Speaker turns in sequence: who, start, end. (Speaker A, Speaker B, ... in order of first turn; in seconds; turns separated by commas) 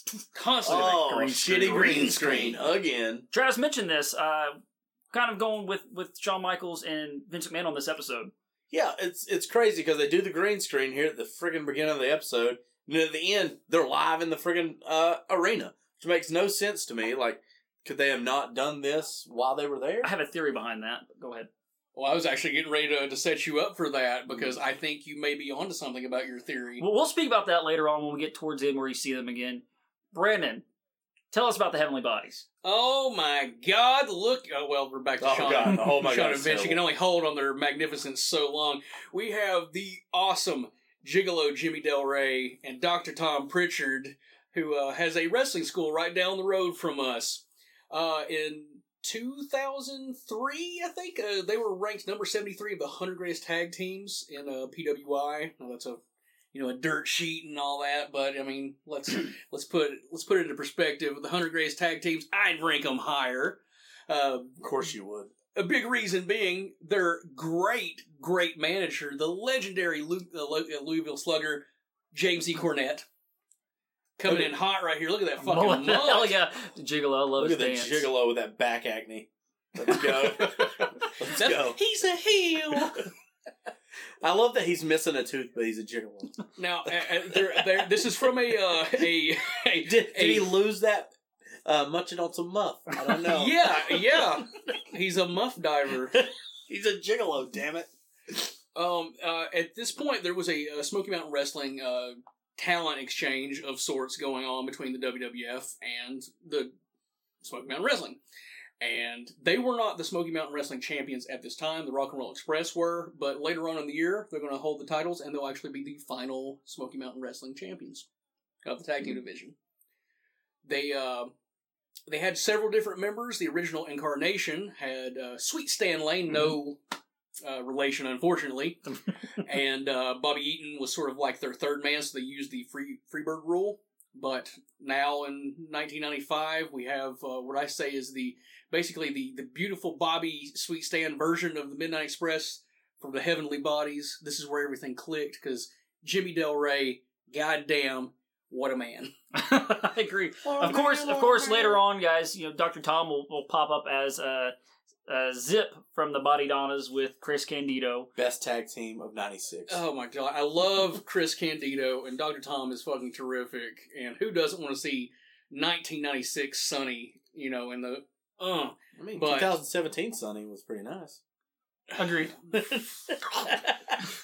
Speaker A: 0.3-2.6, Speaker B: 0.6-3.2, Speaker C: 3.3-4.6, Speaker C: 5.1-8.3, Speaker B: 8.7-20.1, Speaker C: 20.0-21.5, Speaker A: 21.9-26.8, Speaker B: 24.3-24.6, Speaker C: 26.8-30.6, Speaker C: 31.3-32.4, Speaker A: 32.6-56.0, Speaker B: 35.2-36.8, Speaker A: 56.5-64.6, Speaker B: 64.6-65.3, Speaker A: 65.5-73.0, Speaker A: 74.2-76.3, Speaker B: 74.3-74.5, Speaker C: 75.4-78.1, Speaker B: 77.4-81.8, Speaker A: 80.1-83.1, Speaker B: 84.2-86.3, Speaker A: 86.6-90.6, Speaker B: 87.3-87.9, Speaker B: 89.8-91.1, Speaker B: 91.6-93.8, Speaker A: 93.3-96.2, Speaker B: 96.1-97.9, Speaker A: 98.7-106.7, Speaker A: 107.4-108.2, Speaker A: 108.8-118.0, Speaker A: 118.6-119.5, Speaker A: 120.6-121.3, Speaker A: 122.1-126.8, Speaker A: 127.4-128.8, Speaker A: 129.4-149.1, Speaker C: 149.3-154.5, Speaker B: 150.4-151.8, Speaker C: 155.1-158.1, Speaker B: 158.2-159.8, Speaker A: 159.7-169.5, Speaker B: 168.9-171.2, Speaker C: 172.0-172.3, Speaker B: 172.5-173.9